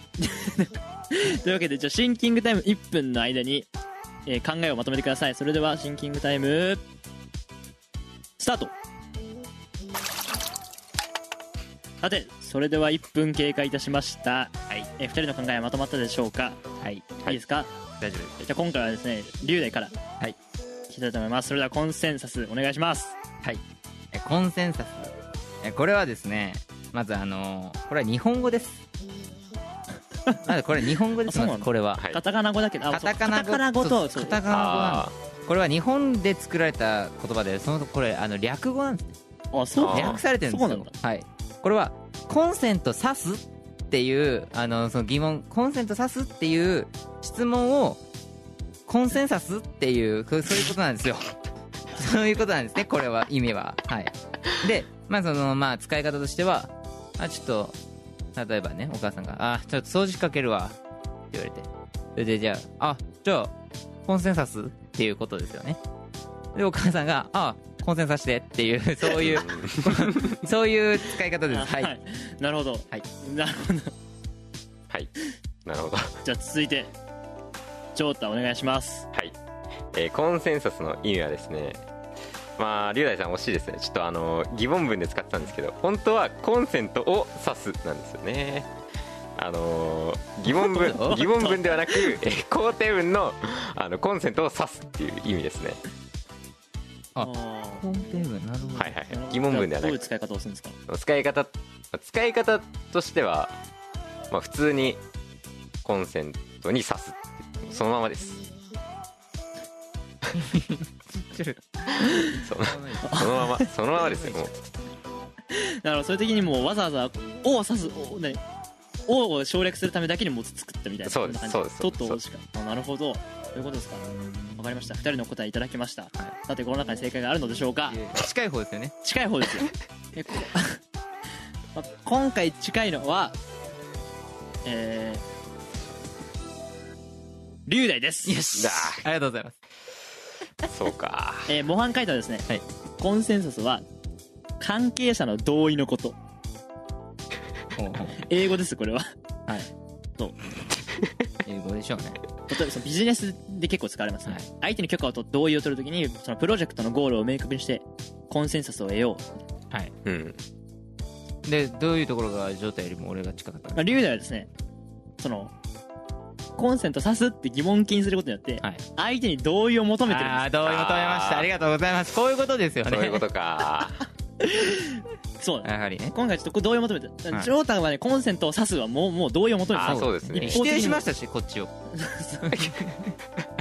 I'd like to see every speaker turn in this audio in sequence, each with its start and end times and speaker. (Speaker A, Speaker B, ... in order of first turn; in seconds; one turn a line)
Speaker A: 0.2-3.7
Speaker A: 4.3-6.8
Speaker A: 8.4-8.8
Speaker A: 12.0-16.6
Speaker B: 16.8-17.1
Speaker A: 17.3-17.7
Speaker B: 18.0-18.4
Speaker A: 18.4-19.9
Speaker A: 20.9-23.1
Speaker B: 23.4-28.8
Speaker B: 30.4-32.1
Speaker A: 31.2-34.4
Speaker B: 32.9-39.1
Speaker C: 34.5-35.1
Speaker A: 39.5-40.9
Speaker C: 39.8-40.2
Speaker B: 39.9-48.0
Speaker B: 48.9-51.4
Speaker B: 51.9-57.8
Speaker B: 58.4-60.8
Speaker B: 61.3-63.5
Speaker B: 64.1-65.8
Speaker B: 66.5-71.9
Speaker C: 69.2-69.9
Speaker A: 71.5-73.9
Speaker C: 75.7-76.2
Speaker A: 76.2-76.9
Speaker A: 78.0-79.1
Speaker C: 79.9-81.8
Speaker C: 82.6-88.7
Speaker C: 89.4-95.8
Speaker B: 90.5-91.3
Speaker A: 91.3-91.9
Speaker B: 97.2-99.0
Speaker A: 97.2-97.9
Speaker C: 98.8-100.0
Speaker A: 99.1-100.8
Speaker C: 100.9-103.6
Speaker C: 104.3-105.0
Speaker C: 105.8-108.4
Speaker B: 110.3-111.6
Speaker A: 112.0-112.3
Speaker C: 112.3-114.5
Speaker B: 112.5-114.5
Speaker A: 113.1-113.7
Speaker A: 115.5-118.4
Speaker A: 119.1-128.0
Speaker C: 121.0-122.2
Speaker B: 127.9-129.0
Speaker A: 129.0-130.8
Speaker A: 131.8-133.4
Speaker A: 134.7-135.2
Speaker A: 137.7-138.4
Speaker B: 138.2-139.6
Speaker C: 138.6-139.1
Speaker C: 140.7-141.5
Speaker A: 141.5-142.5
Speaker A: 143.0-143.8
Speaker A: 144.6-146.2
Speaker B: 147.8-148.3
Speaker A: 148.2-149.1
Speaker B: 151.4-152.2
Speaker A: 152.5-159.5
Speaker C: 160.1-160.4
Speaker B: 161.4-163.9
Speaker A: 163.8-164.5
Speaker A: 165.2-165.5
Speaker A: 166.6-170.5
Speaker B: 170.1-173.2
Speaker C: 170.7-171.5
Speaker C: 172.9-174.1
Speaker A: 174.4-181.1
Speaker B: 175.6-176.2
Speaker C: 179.7-180.6
Speaker B: 179.8-181.7
Speaker A: 181.9-182.8
Speaker B: 182.4-183.2